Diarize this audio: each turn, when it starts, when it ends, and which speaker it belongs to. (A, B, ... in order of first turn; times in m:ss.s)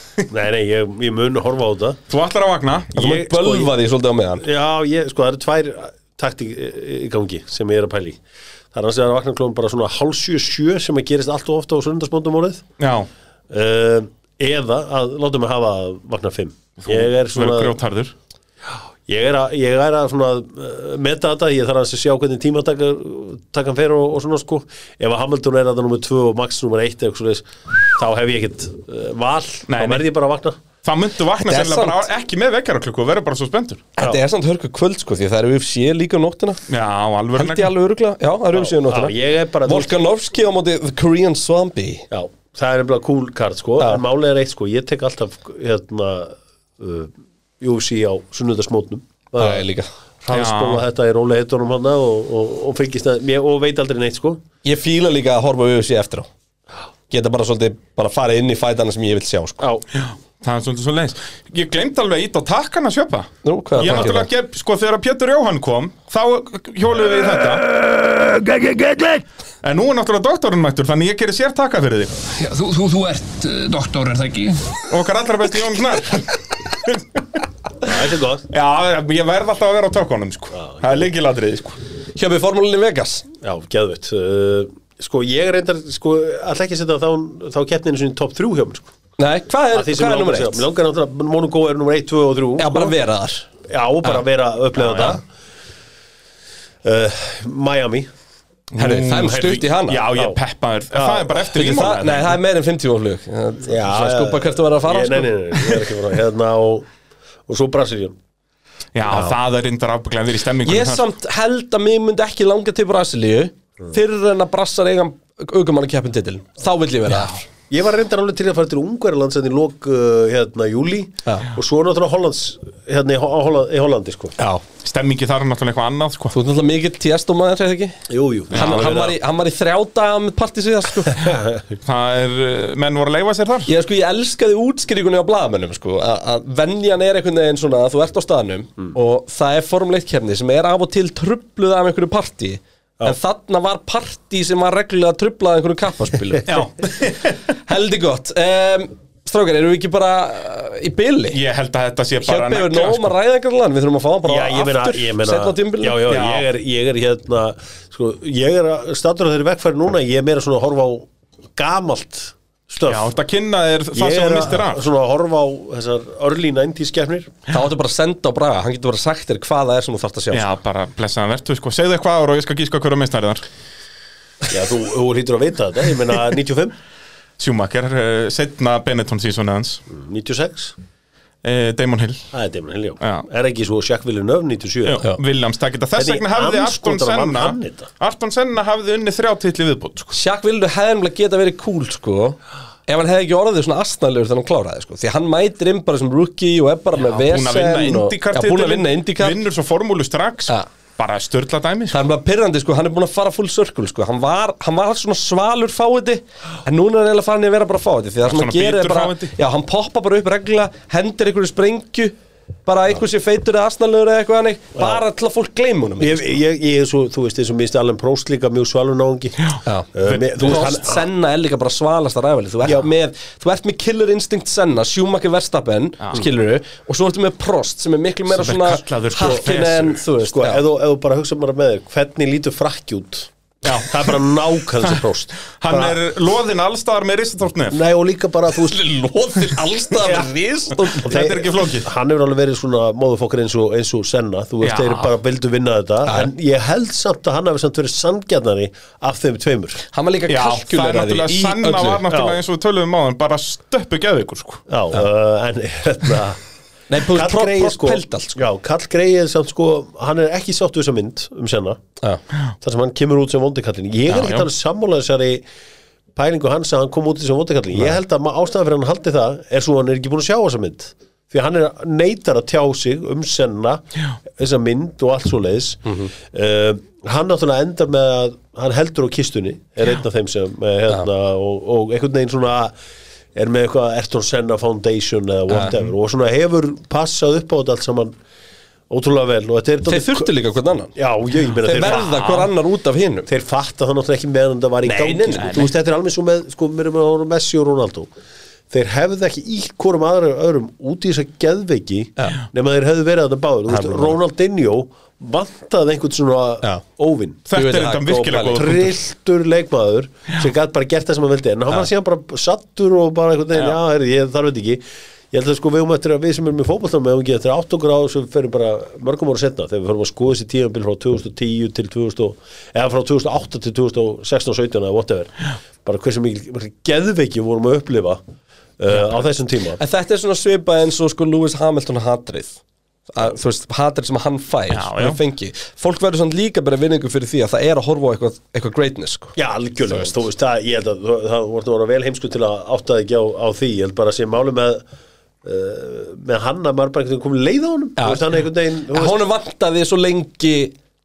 0:00.3-0:02.0 A
0:02.1-0:02.9 B
0:02.9-0:03.7 A
0:03.0-0:04.5 C
0:04.4-0:08.2 A
0:08.7-0:12.6 A
0:12.8-0:13.1 B
0:13.5-0:17.8 A
0:16.8-0:18.1 B
0:19.1-0:30.6 A
0:29.7-0:30.0 B
0:30.8-0:33.9 B
0:31.4-0:32.0 C
0:34.0-0:36.6 C
0:36.7-0:37.7 B
0:37.4-0:42.0 C
0:38.5-0:40.0 A
0:42.1-0:49.7 A
0:49.4-0:49.9 C
0:50.2-0:54.4 A
0:50.3-0:50.8 B
0:54.6-0:56.3 C
0:57.1-0:59.7 C
0:59.9-1:07.7 B
1:03.4-1:04.3 C
1:08.3-1:09.2 C
1:09.6-1:12.1 B
1:12.3-1:14.8 D
1:14.9-1:17.2 B
1:17.8-1:18.4 A
1:18.5-1:21.8 B
1:20.6-1:21.0 A
1:22.2-1:23.3 C
1:23.4-1:28.9 A
1:29.2-1:30.6 C
1:29.7-1:33.0 A
1:32.6-1:33.5 C
1:33.6-1:35.2 A
1:34.8-1:35.2 B
1:36.8-1:38.1 A
1:38.7-1:42.4 B
1:38.8-1:40.0 C
1:40.1-1:40.4 A
1:40.9-1:41.4 A
1:41.6-1:45.3 C
1:43.6-1:46.9 A
1:47.5-1:48.2 A
1:49.0-1:51.0 B
1:50.6-1:57.5 C
1:57.7-2:04.4 A
2:04.4-2:04.6 C
2:04.8-2:06.4 B
2:06.3-2:08.0 C
2:08.1-2:09.2 A
2:08.5-2:09.0 B
2:08.5-2:11.4 C
2:11.1-2:11.7 A
2:11.8-2:13.7 B
2:13.7-2:26.6 C
2:26.5-2:27.4 B
2:27.6-2:31.4 C
2:31.3-2:33.2 B
2:32.2-2:36.0 C
2:34.2-2:43.1 A
2:36.1-2:36.5 B
2:42.8-2:44.8 B
2:44.0-2:47.3 A
2:47.5-2:50.5 C
2:50.3-2:53.4 B
2:54.5-2:56.8 A
2:57.4-2:59.8 B
2:59.9-3:00.8 A
3:01.4-3:02.2 B
3:02.3-3:05.1 A
3:03.0-3:03.3 B
3:04.8-3:10.2 B
3:06.0-3:07.9 A
3:10.1-3:19.4 C
3:17.0-3:22.0 B
3:21.9-3:32.2 C
3:28.2-3:29.3 B
3:32.7-3:36.4 C
3:34.8-3:35.0 A
3:36.0-3:41.0 A
3:39.5-3:40.7 B
3:39.7-3:50.6 C
3:48.3-3:50.0 B
3:50.3-3:56.0 A
3:53.6-3:54.3 B
3:54.8-3:57.8 B
3:57.7-3:58.8 A
3:58.6-4:01.2 C
4:00.0-4:00.3 A
4:00.8-4:09.8 A
4:00.9-4:01.9 B
4:04.6-4:05.1 B
4:09.9-4:12.0 C
4:10.3-4:14.6 B
4:12.1-4:12.4 A
4:14.7-4:16.4 A
4:16.9-4:18.4 C
4:17.1-4:21.8 A
4:22.6-4:25.4 A
4:24.1-4:24.5 B
4:26.2-4:42.8 A
4:35.9-4:36.1 C
4:43.4-4:48.1 A
4:45.5-4:45.8 C
4:48.9-4:50.3 A
4:49.9-4:50.9 C
4:51.0-4:52.1 A
4:51.6-4:53.3 C
4:51.8-4:52.5 B
4:53.3-4:58.1 A
4:54.8-4:55.7 C
4:55.4-4:55.7 B
4:58.7-5:07.5 A
5:03.7-5:04.2 C
5:07.5-5:09.0 B
5:07.5-5:08.8 C
5:08.5-5:28.2 A
5:28.8-5:29.8 A
5:29.8-5:39.4 C
5:34.7-5:35.2 B
5:39.4-5:44.8 A
5:45.4-5:49.2 A
5:48.0-5:48.2 C
5:48.9-5:50.8 C